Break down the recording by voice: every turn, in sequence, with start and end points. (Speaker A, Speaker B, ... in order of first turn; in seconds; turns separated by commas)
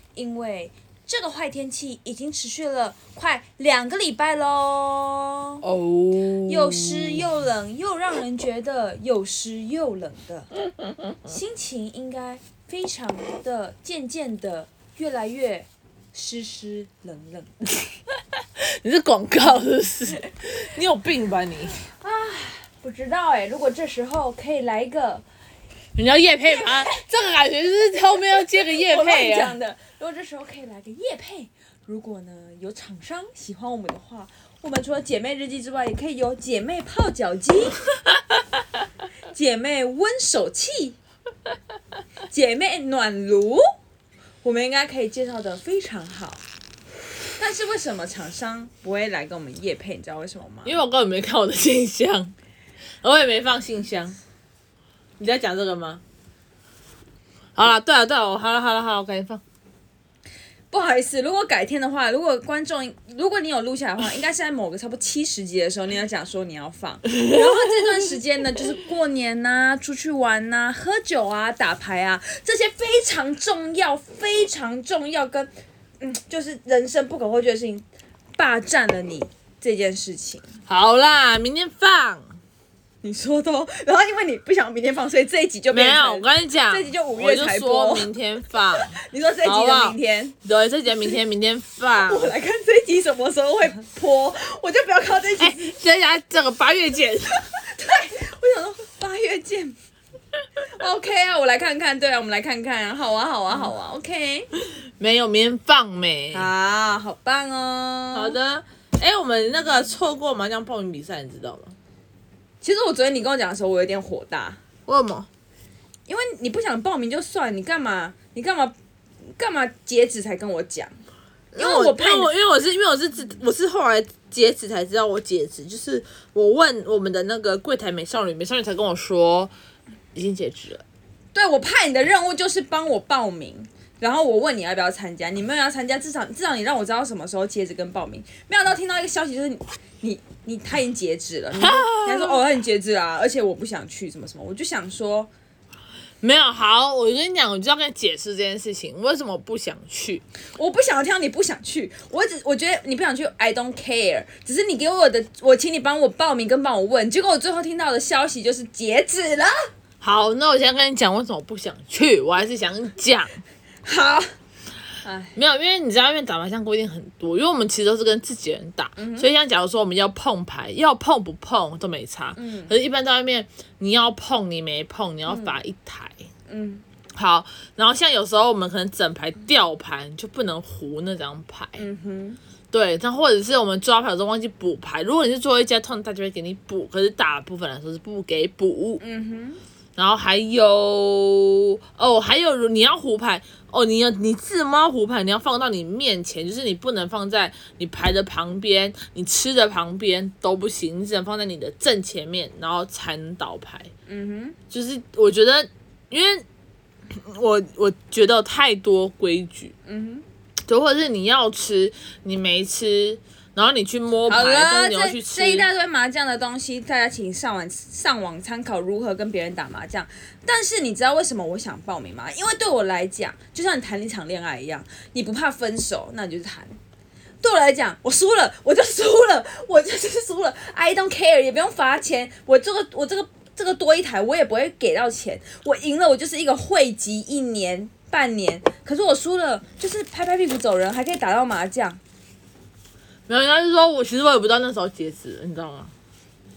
Speaker A: 0.2-5.6, Speaker B: 5.6-7.3, Speaker A: 6.5-10.5, Speaker A: 11.3-17.5, Speaker B: 18.6-21.8, Speaker A: 21.8-25.2, Speaker B: 26.0-29.6, Speaker A: 26.5-27.0, Speaker A: 28.1-37.8, Speaker A: 39.3-41.0, Speaker A: 42.3-43.6, Speaker A: 44.4-46.4, Speaker A: 47.4-50.8, Speaker B: 50.6-52.3, Speaker B: 53.0-54.2, Speaker B: 55.2-56.0, Speaker B: 57.6-59.4, Speaker A: 60.7-77.8, Speaker A: 78.4-80.5, Speaker B: 80.7-82.4, Speaker A: 83.0-88.1, Speaker B: 85.7-92.3, Speaker A: 88.8-90.3, Speaker A: 92.0-95.7, Speaker B: 95.4-97.4, Speaker A: 97.5-99.8, Speaker A: 100.8-104.5, Speaker B: 105.0-106.5, Speaker A: 106.3-108.4, Speaker B: 108.1-111.8, Speaker A: 112.6-114.6, Speaker B: 114.9-115.3, Speaker A: 116.1-118.8, Speaker A: 119.4-120.9, Speaker B: 121.5-129.5, Speaker A: 121.6-122.3, Speaker B: 130.2-130.8, Speaker A: 131.3-145.3, Speaker B: 141.5-142.4, Speaker B: 146.2-150.2, Speaker A: 150.6-159.6, Speaker B: 160.0-163.4, Speaker A: 163.8-164.3, Speaker A: 165.0-165.4, Speaker B: 165.3-176.2, Speaker A: 169.0-169.3, Speaker A: 172.4-172.7, Speaker A: 175.3-175.5, Speaker A: 176.5-176.8, Speaker B: 177.2-181.8, Speaker A: 181.8-182.4, Speaker B: 182.7-189.0, Speaker A: 189.0-189.6, Speaker B: 190.0-203.9, Speaker A: 204.1-204.6, Speaker B: 204.7-206.4, Speaker B: 207.2-209.7, Speaker A: 209.9-210.2, Speaker B: 210.7-215.7, Speaker A: 214.3-226.8, Speaker A: 227.4-242.0, Speaker B: 243.3-245.9